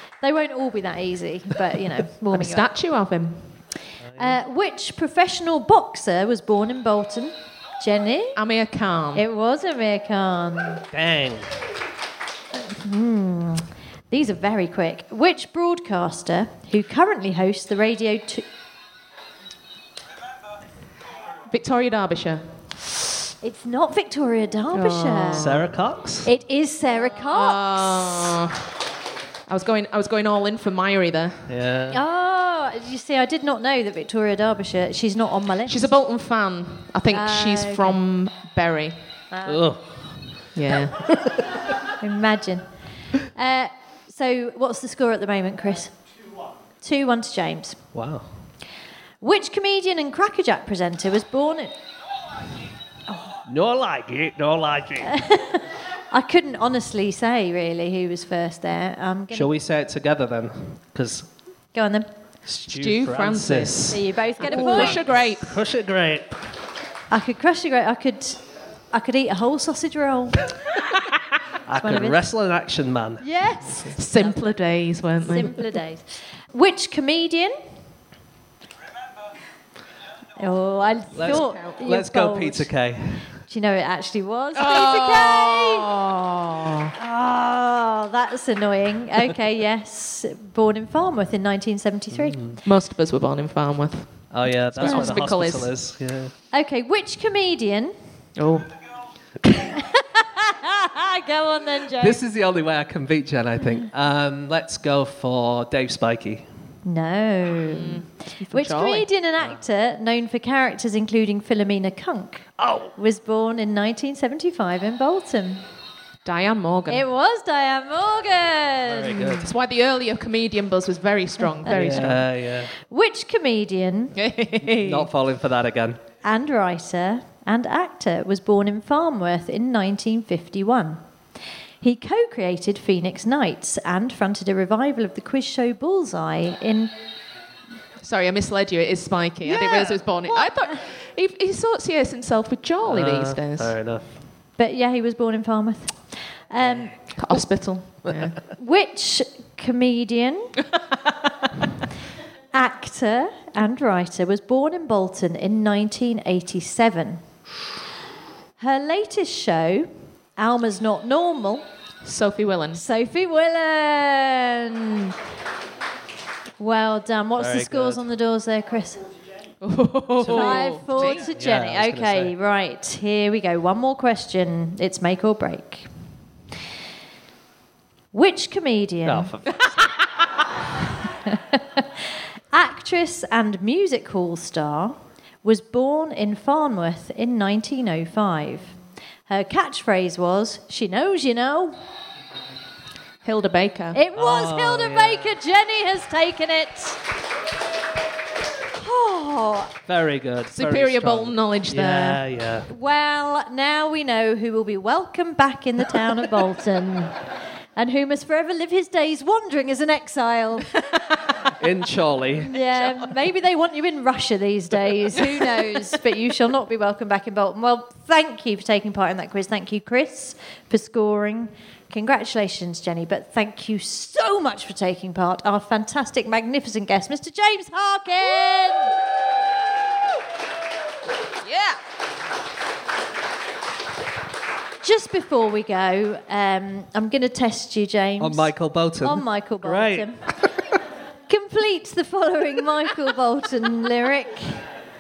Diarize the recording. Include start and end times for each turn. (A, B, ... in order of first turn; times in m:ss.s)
0:00.2-0:02.7 A
0:02.3-0:03.6 B
0:04.0-0:04.4 C
0:04.2-0:08.4 A
0:08.4-0:09.2 B
0:09.2-0:10.8 A
0:10.9-0:11.6 C
0:12.6-0:18.4 A
0:21.5-0:22.8 B
0:23.4-0:25.5 A
0:24.7-0:25.7 B
0:25.4-0:26.3 C
0:26.2-0:28.4 A
0:27.2-0:28.6 B
0:29.5-0:31.6 B
0:31.5-0:32.0 C
0:31.9-0:35.9 A
0:35.7-0:39.0 B
0:37.1-0:38.0 A
0:39.3-0:39.6 A
0:39.4-0:40.5 C
0:40.6-0:41.0 B
0:41.0-0:41.6 C
0:42.0-0:42.6 A
0:43.3-0:46.0 A
0:46.8-0:47.8 A
0:47.9-0:48.3 C
0:49.2-0:51.8 A
0:53.5-0:55.1 C
0:55.0-0:59.5 A
0:59.3-1:01.3 C
1:01.7-1:02.1 A
1:02.5-1:06.4 C
1:02.6-1:05.6 B
1:03.9-1:05.0 A
1:07.1-1:10.5 A
1:11.7-1:13.2 C
1:11.7-1:12.2 A
1:13.2-1:14.6 A
1:14.0-1:15.6 B
1:15.3-1:17.6 A
1:20.4-1:22.7 A
1:21.2-1:23.4 C
1:21.2-1:21.8 B
1:23.5-1:26.1 A
1:24.6-1:26.9 B
1:27.0-1:32.4 A
1:32.1-1:32.6 C
1:32.6-1:35.7 B
1:34.3-1:36.3 C
1:34.8-1:35.2 A
1:36.5-1:38.0 A
1:38.4-1:38.7 B
1:39.6-1:42.2 A
1:42.0-1:46.5 C
1:46.8-1:55.6 A
1:47.7-1:49.1 B
1:52.6-1:52.9 C
1:56.2-1:57.0 B
1:56.9-1:59.4 A
1:58.9-1:59.5 C
1:59.4-2:02.2 B
2:01.7-2:04.2 A
2:01.7-2:02.7 C
2:04.2-2:05.1 B
2:04.7-2:06.0 C
2:06.2-2:11.0 A
2:11.8-2:16.9 A
2:18.0-2:23.8 B
2:19.6-2:19.9 C
2:20.3-2:20.8 A
2:22.8-2:24.1 C
2:24.6-2:27.0 A
2:26.6-2:26.9 C
2:27.2-2:28.4 B
2:28.6-2:30.6 A
2:32.5-2:37.2 A
2:38.6-2:41.6 A
2:42.0-2:42.8 B
2:42.8-2:45.1 A
2:46.6-2:49.0 A
2:47.4-2:48.1 C
2:49.6-2:51.2 B
2:50.2-2:52.3 C
2:50.3-2:55.9 A
2:58.1-2:59.3 A
2:59.0-2:59.6 C
3:01.2-3:08.8 A
3:09.3-3:11.8 A
3:13.2-3:14.0 B
3:13.9-3:17.0 A
3:14.2-3:15.4 C
3:18.7-3:19.7 A
3:19.9-3:22.7 C
3:20.5-3:22.2 B
3:22.7-3:27.2 A
3:27.8-3:31.2 A
3:31.5-3:32.6 C
3:32.4-3:49.0 A
3:51.4-3:51.8 B
3:54.8-4:00.2 A
3:58.2-4:00.5 C
4:01.3-4:04.6 A